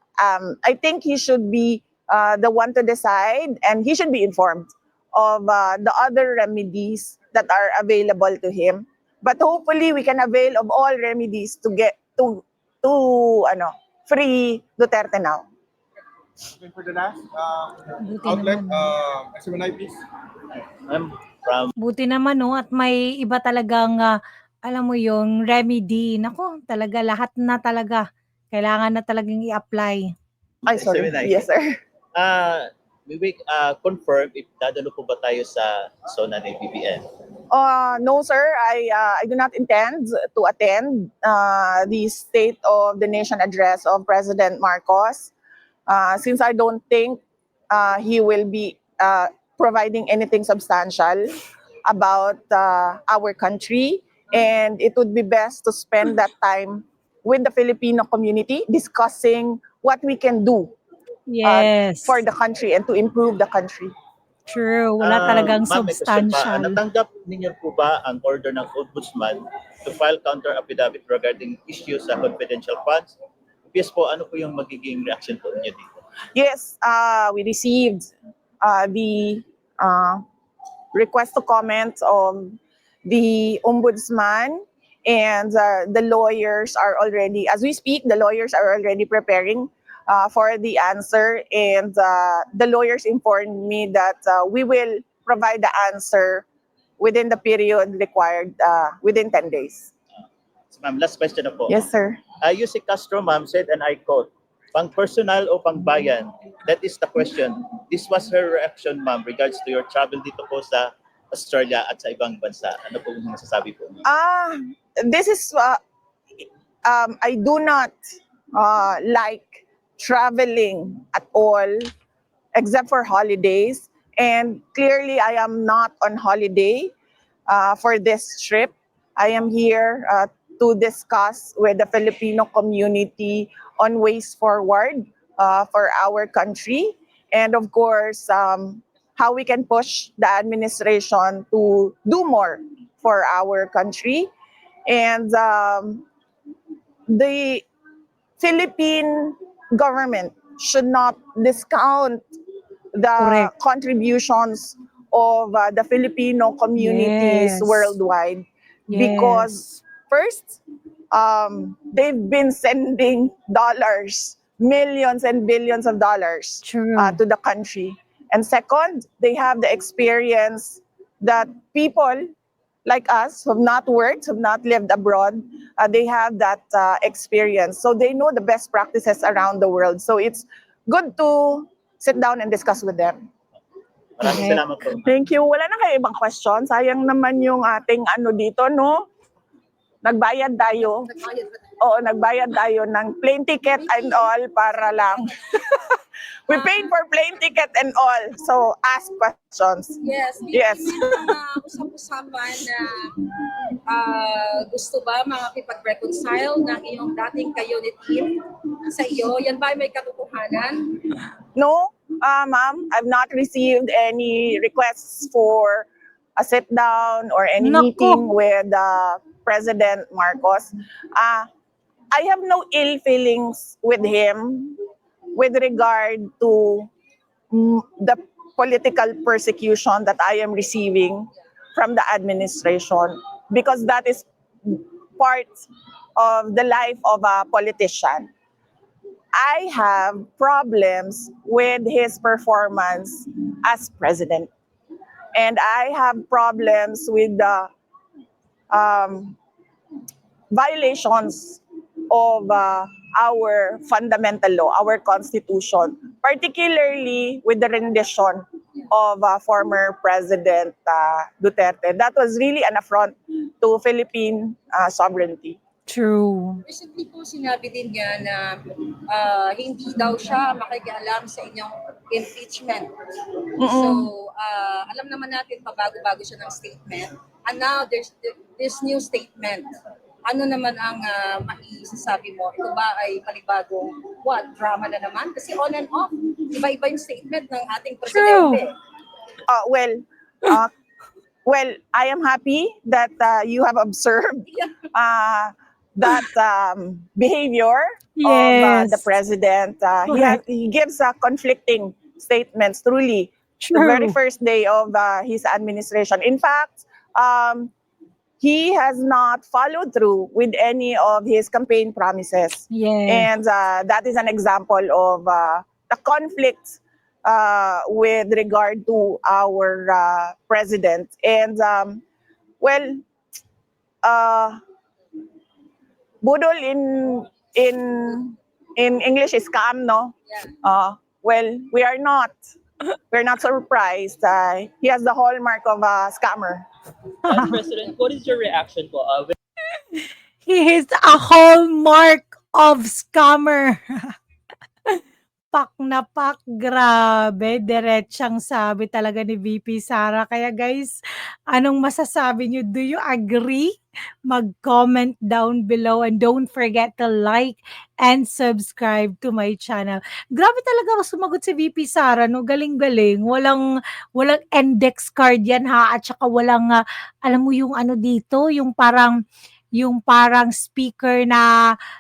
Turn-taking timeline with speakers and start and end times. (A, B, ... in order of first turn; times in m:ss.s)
0:00.2-0:15.4 A
0:16.5-0:20.0 B
0:18.0-0:19.0 C
0:20.8-0:21.7 D
0:21.8-0:30.1 C
0:30.6-0:31.4 D
0:30.7-0:31.7 A
0:32.1-0:37.0 D
0:37.5-0:45.3 A
0:45.9-0:47.2 A
0:47.7-1:00.7 A
1:01.3-1:02.2 C
1:01.4-1:03.9 A
1:04.5-1:06.8 C
1:05.0-1:13.1 D
1:13.7-1:15.9 D
1:16.3-1:20.2 A
1:20.9-1:36.4 A
1:37.0-1:39.9 A
1:40.7-1:41.8 D
1:41.7-1:42.2 A
1:42.4-1:54.0 D
1:54.0-1:55.8 A
1:56.8-1:57.9 A
1:58.5-2:01.9 A
2:02.5-2:06.9 A
2:07.5-2:24.3 A
2:24.9-2:26.0 A
2:27.1-2:27.6 A
2:28.4-2:32.2 A
2:32.9-2:40.6 A
2:33.2-2:33.5 C
2:36.8-2:38.0 C
2:38.9-2:39.7 C
2:41.1-2:52.2 A
2:46.6-2:47.2 C
2:52.8-3:03.2 A
3:04.2-3:05.2 D
3:04.2-3:04.6 C
3:05.0-3:09.0 A
3:10.0-3:11.1 A
3:10.8-3:11.6 E
3:11.8-3:15.9 A
3:13.8-3:14.3 E
3:14.9-3:15.7 E
3:16.5-3:20.0 A
3:16.5-3:16.9 E
3:20.0-3:23.2 E
3:20.5-3:21.4 A
3:23.9-3:31.0 E
3:31.6-3:41.5 A
3:37.6-3:38.2 C
3:42.1-3:44.8 A
3:45.3-3:46.9 A
3:47.5-3:55.6 A
3:56.2-3:58.3 A
3:59.4-4:04.5 A
4:05.3-4:07.7 A
4:08.7-4:09.4 A
4:10.5-4:25.6 A
4:25.9-4:26.6 C
4:26.6-4:32.9 E
4:33.6-4:34.1 A
4:33.6-4:39.7 E
4:40.3-4:48.7 E
4:48.1-4:48.6 C
4:49.4-4:50.7 A
4:51.4-5:07.7 A
4:54.5-4:54.8 E
4:58.2-4:59.0 C
5:00.1-5:00.4 C
5:03.6-5:04.1 C
5:08.4-5:22.0 A
5:12.7-5:13.3 C
5:22.6-5:23.0 A
5:24.0-5:24.6 A
5:26.2-5:32.4 A
5:30.3-5:30.5 E
5:33.1-5:36.6 A
5:37.2-5:39.3 F
5:40.4-5:44.1 C
5:45.5-5:53.7 C
5:54.2-6:03.6 C
6:04.1-6:09.2 C
6:09.8-6:11.5 C